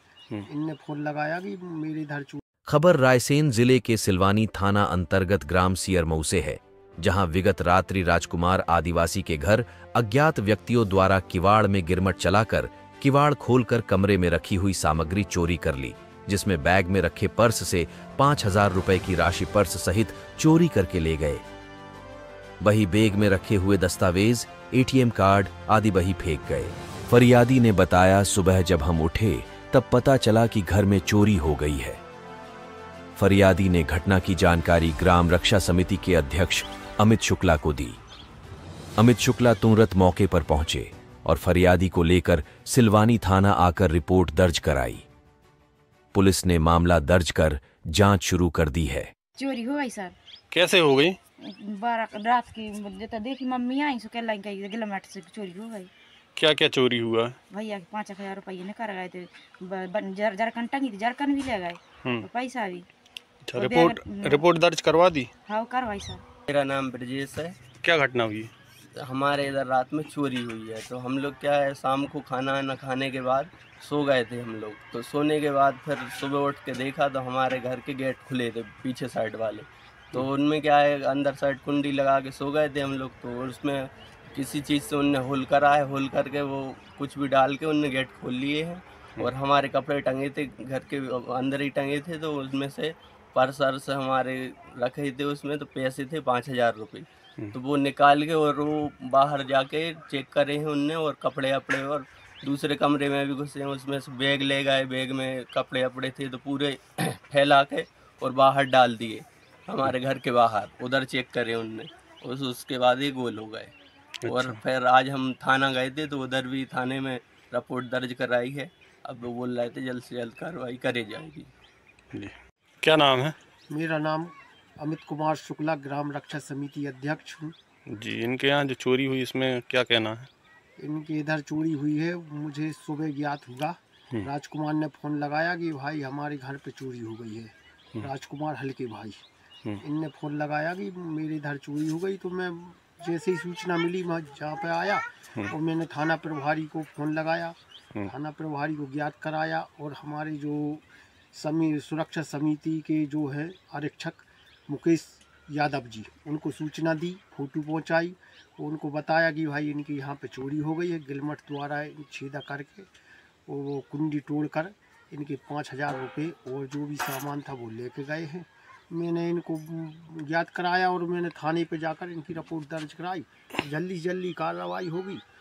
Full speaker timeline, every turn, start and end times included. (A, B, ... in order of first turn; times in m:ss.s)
0:00.4-0:02.4 A
0:02.7-0:21.4 B
0:22.6-0:32.0 B
0:33.2-0:38.0 B
0:39.0-0:45.0 B
0:46.1-0:49.1 B
0:49.4-0:50.1 C
0:50.5-0:51.2 D
0:51.4-0:55.9 C
0:56.4-0:57.4 D
0:57.5-1:02.9 C
1:03.5-1:05.3 D
1:03.6-1:04.4 C
1:05.5-1:06.2 C
1:06.5-1:07.6 E
1:07.8-1:08.5 D
1:09.0-1:53.7 E
1:54.2-1:54.6 D
1:54.2-2:01.5 E
2:02.1-2:03.4 D
2:03.7-2:07.5 A
2:07.9-2:10.3 D
2:10.8-2:19.2 A
2:19.8-2:42.9 A
2:43.5-2:55.2 A